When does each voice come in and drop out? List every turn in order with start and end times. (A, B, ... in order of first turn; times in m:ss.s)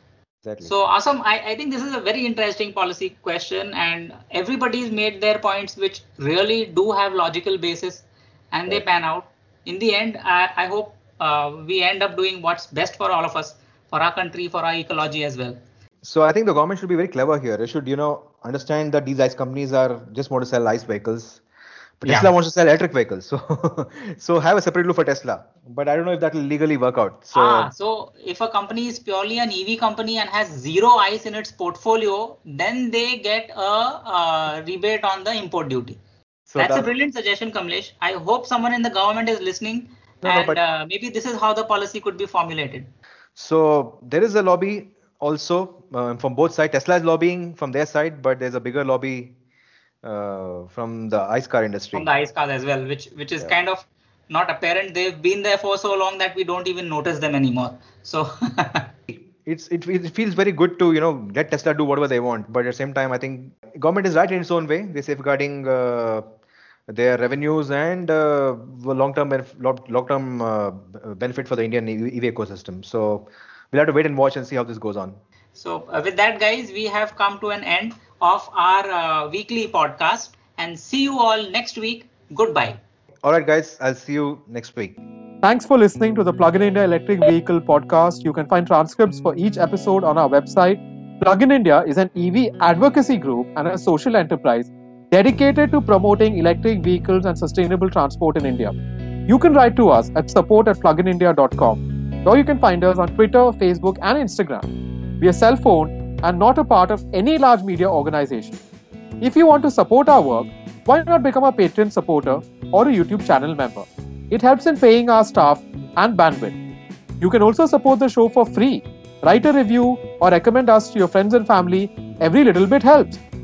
0:00.4-0:00.7 A
0:00.6-0:15.6 B
0:16.0-0:21.4 A
0:22.0-0:27.7 A
0:22.0-0:22.3 B
0:27.3-0:36.0 B
0:36.5-0:36.9 A
0:36.6-0:42.9 B
0:40.2-0:40.6 A
0:43.4-0:49.4 A
0:50.0-0:52.1 A
0:51.9-0:58.9 B
0:59.1-1:06.3 A
1:06.9-1:15.2 A
1:15.5-1:22.8 B
1:23.2-1:25.0 A
1:25.4-1:38.7 C
1:39.3-1:44.7 C
1:45.2-1:48.6 C
1:49.2-1:56.6 C
1:57.2-2:03.2 C